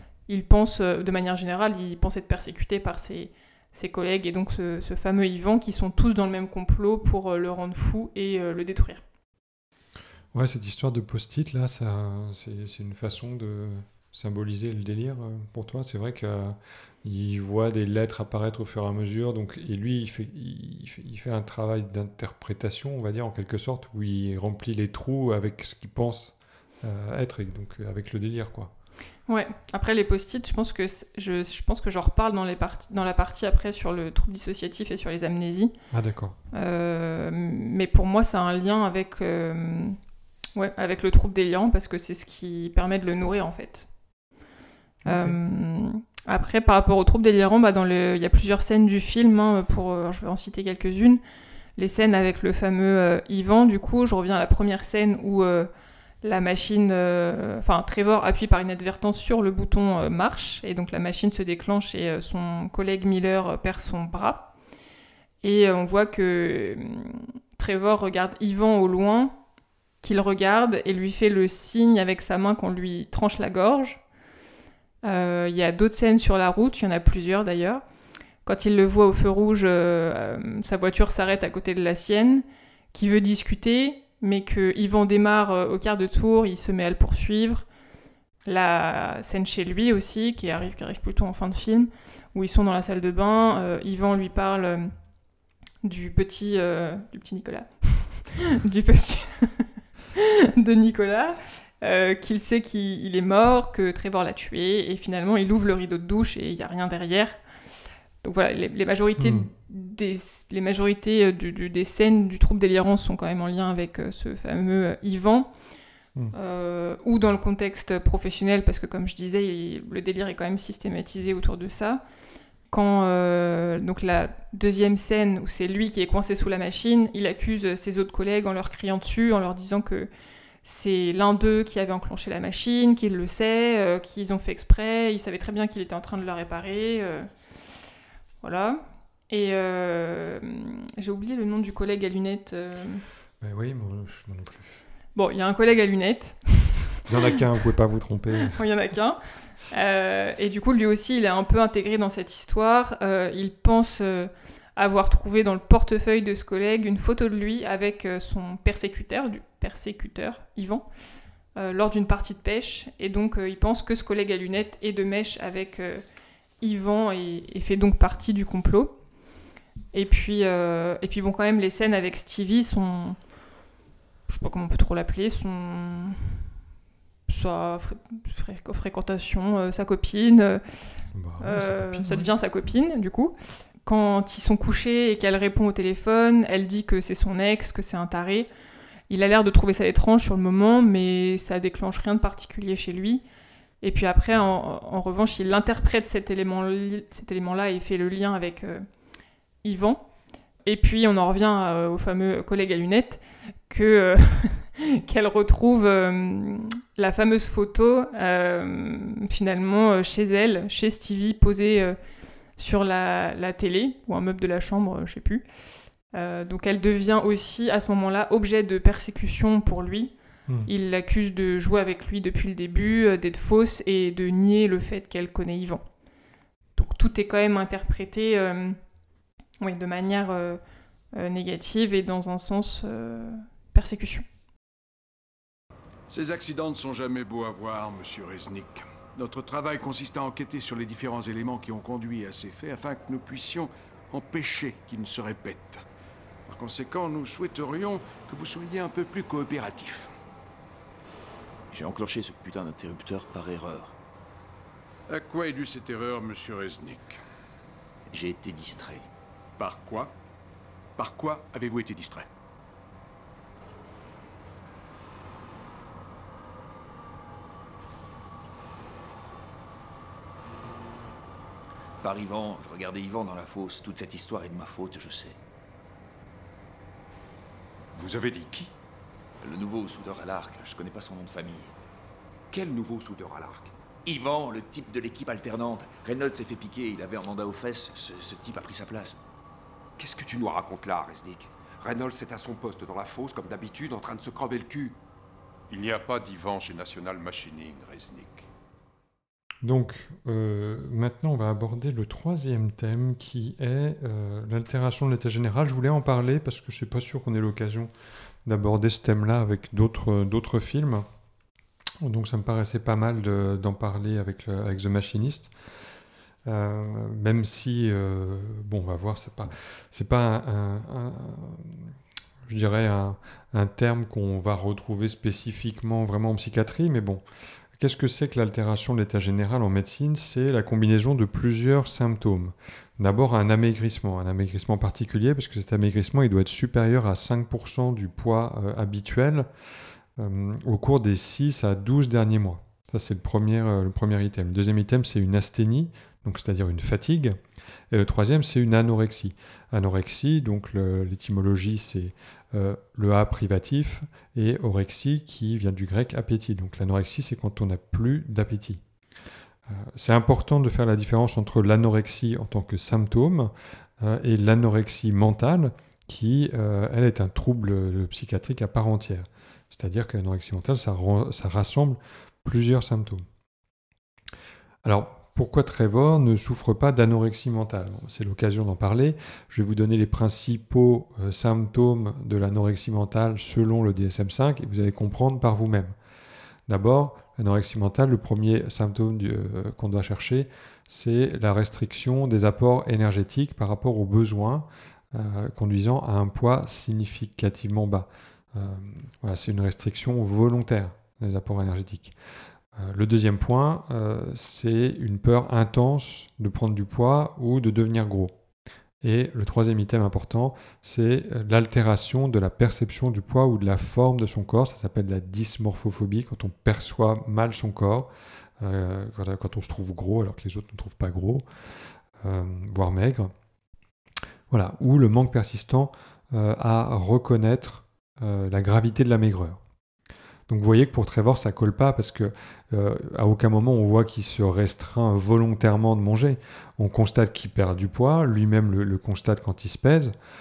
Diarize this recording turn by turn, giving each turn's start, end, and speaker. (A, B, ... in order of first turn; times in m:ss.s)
0:00.3-0:09.0 A
0:10.3-0:28.7 B
0:29.3-0:35.7 A
0:35.9-0:36.4 B
0:36.5-0:40.0 A
0:40.5-0:43.9 A
0:45.0-0:51.2 A
0:45.1-0:45.3 B
0:51.8-0:55.7 A
0:56.2-1:04.5 A
1:05.4-1:09.3 A
1:10.0-1:14.0 A
1:15.0-1:17.8 A
1:18.4-1:27.7 A
1:28.4-1:34.9 A
1:35.8-1:47.4 A
1:48.2-1:55.5 A
1:49.2-1:49.5 B
1:56.3-2:02.0 A
2:02.7-2:10.1 A
2:10.6-2:17.3 A
2:18.4-2:23.0 A
2:23.4-2:24.8 B
2:25.1-2:27.0 A
2:27.1-2:28.6 B
2:28.5-2:29.2 A
2:29.7-2:40.9 A
2:41.6-2:46.0 A
2:46.6-2:48.9 A
2:49.9-2:53.2 A
2:54.3-2:56.5 A
2:57.3-3:00.8 A
3:01.1-3:02.3 B
3:01.4-3:08.5 A
3:09.1-3:13.2 A
3:13.8-3:18.8 A
3:19.6-3:20.1 A
3:20.6-3:32.0 A
3:32.6-3:35.4 A
3:36.1-3:40.1 A
3:40.6-3:45.8 A
3:46.8-3:48.8 A
3:49.6-3:50.6 A
3:51.1-3:54.2 A
3:56.1-3:58.8 C
3:59.4-3:59.8 C
4:01.3-4:02.9 C
4:07.9-4:08.2 C
4:11.7-4:14.0 D
4:15.1-4:17.2 C
4:18.1-4:19.0 D
4:19.6-4:20.1 C
4:21.0-4:22.2 C
4:32.0-4:35.4 D
4:37.9-4:38.7 E
4:39.4-4:41.7 D
4:42.5-4:43.7 E
4:44.0-4:49.2 D
4:50.0-4:55.0 E
4:55.7-4:58.5 F
4:59.6-5:07.9 B
5:08.4-5:11.0 B
5:12.0-5:15.5 B
5:16.4-5:21.9 B
5:22.5-5:27.2 B
5:27.8-5:39.5 B
5:40.2-5:47.4 B
5:47.9-5:58.8 B
5:59.7-6:13.2 B
6:14.8-6:25.9 B
6:26.7-6:42.1 B
6:42.8-6:48.3 B
6:49.0-7:01.4 B
7:02.2-7:03.3 B
7:04.5-7:09.6 B
7:10.5-7:20.1 B